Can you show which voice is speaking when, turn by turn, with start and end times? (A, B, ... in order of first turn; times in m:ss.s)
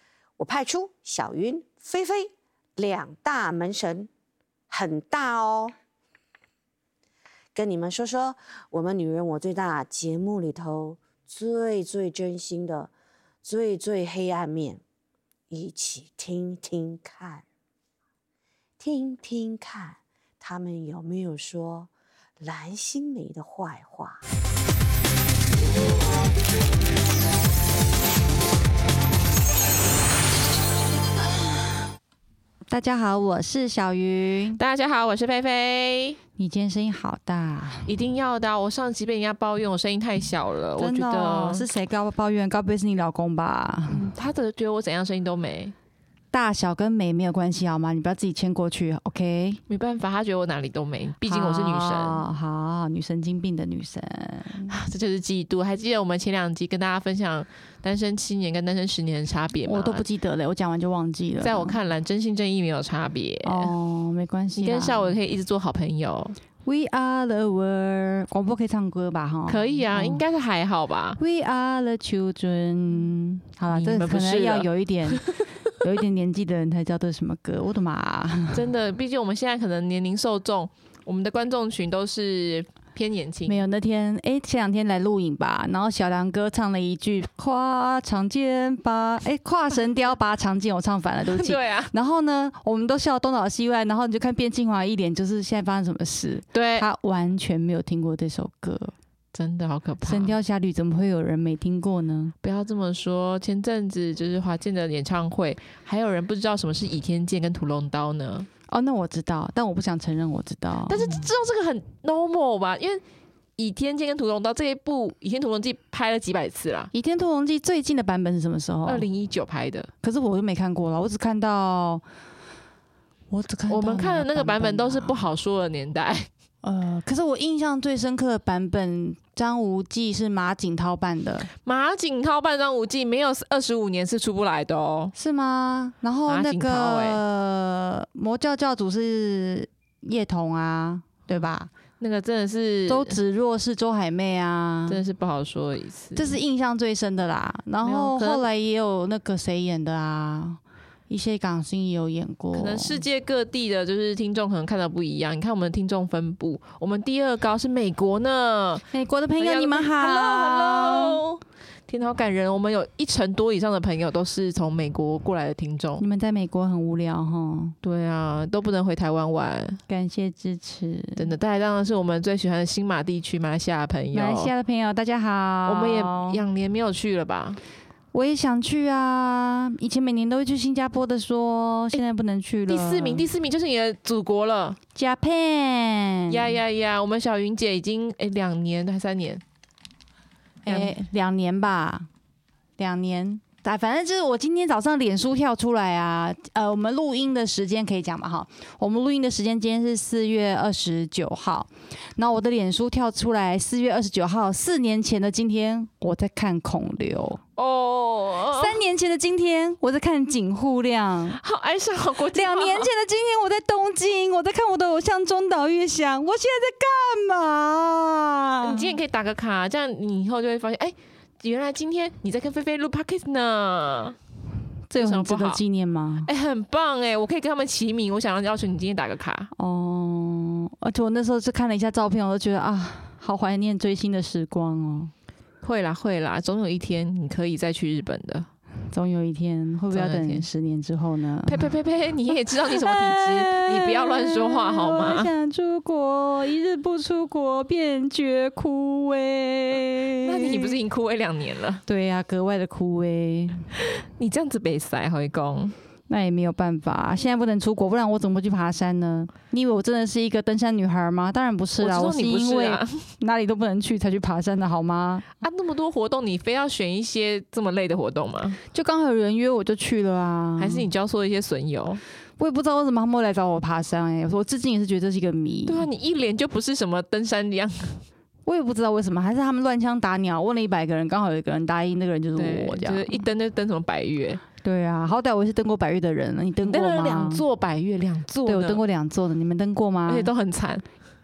0:00.4-0:04.1 A
0:04.7-0:05.7 A
0:07.6-0:12.9 A
0:13.4-0:14.8 A
0:15.5-0:17.4 A
0:18.8-0:24.2 A
0:32.7-0:34.6 B
0:34.6-0:36.2 C
0:36.4-0:37.9 B
0:37.8-0:41.7 C
0:40.8-0:44.1 B
0:43.9-0:45.7 C
0:46.3-0:49.6 B
0:49.7-0:52.2 C
0:51.2-0:54.7 B
0:54.7-1:00.0 C
0:59.6-1:01.8 B
1:01.4-1:03.7 C
1:03.4-1:05.2 B
1:04.6-1:06.4 C
1:06.6-1:10.2 B
1:09.5-1:11.2 C
1:11.2-1:15.2 B
1:13.7-1:15.4 C
1:15.8-1:18.6 B
1:18.5-1:23.6 C
1:23.5-1:38.9 B
1:31.3-1:31.9 C
1:36.5-1:36.9 C
1:39.3-1:40.4 C
1:40.0-1:42.4 B
1:42.4-1:48.5 C
1:48.7-1:51.2 B
1:50.9-1:53.0 C
1:53.6-1:56.9 C
1:56.9-1:59.1 B
1:58.9-1:59.9 C
2:00.0-2:02.0 B
2:03.3-2:05.2 B
2:03.7-2:06.3 C
2:06.6-2:11.5 B
2:11.6-2:15.1 C
2:15.1-2:21.7 B
2:16.3-2:17.2 C
2:22.0-2:23.2 C
2:22.9-2:25.0 B
2:24.9-2:26.4 C
2:26.1-2:33.0 B
2:27.8-2:28.4 C
2:32.5-2:38.9 C
2:38.9-2:41.2 B
2:39.4-2:46.0 C
2:46.0-2:47.8 B
2:47.8-2:49.8 C
2:49.9-2:51.2 B
2:51.2-2:54.5 C
2:54.1-2:56.4 B
2:55.7-2:57.6 C
2:58.1-3:03.2 B
3:02.7-3:04.8 C
3:04.9-3:06.5 B
3:06.3-3:09.4 C
3:10.6-3:12.1 B
3:10.6-3:10.9 C
3:12.8-3:27.4 B
3:27.6-3:28.8 C
3:28.5-3:31.4 B
3:31.3-3:32.9 C
3:32.3-3:39.0 B
3:38.6-3:44.2 C
3:44.9-3:46.3 B
3:45.0-3:45.6 C
3:46.2-3:49.5 C
3:49.6-3:55.1 B
3:55.6-3:58.5 C
3:58.9-4:01.7 B
3:59.9-4:00.4 C
4:01.4-4:05.3 C
4:02.6-4:10.7 B
4:10.2-4:11.8 C
4:11.8-4:13.7 B
4:13.8-4:15.7 C
4:16.1-4:25.3 B
4:21.8-4:23.1 C
4:25.4-4:28.6 C
4:28.7-4:30.9 B
4:30.6-4:32.0 C
4:32.4-4:35.9 B
4:35.7-4:38.0 C
4:38.5-4:43.2 B
4:42.4-4:44.4 C
4:44.6-4:47.4 B
4:46.6-4:48.8 C
4:48.5-4:50.3 B
4:50.1-4:50.8 C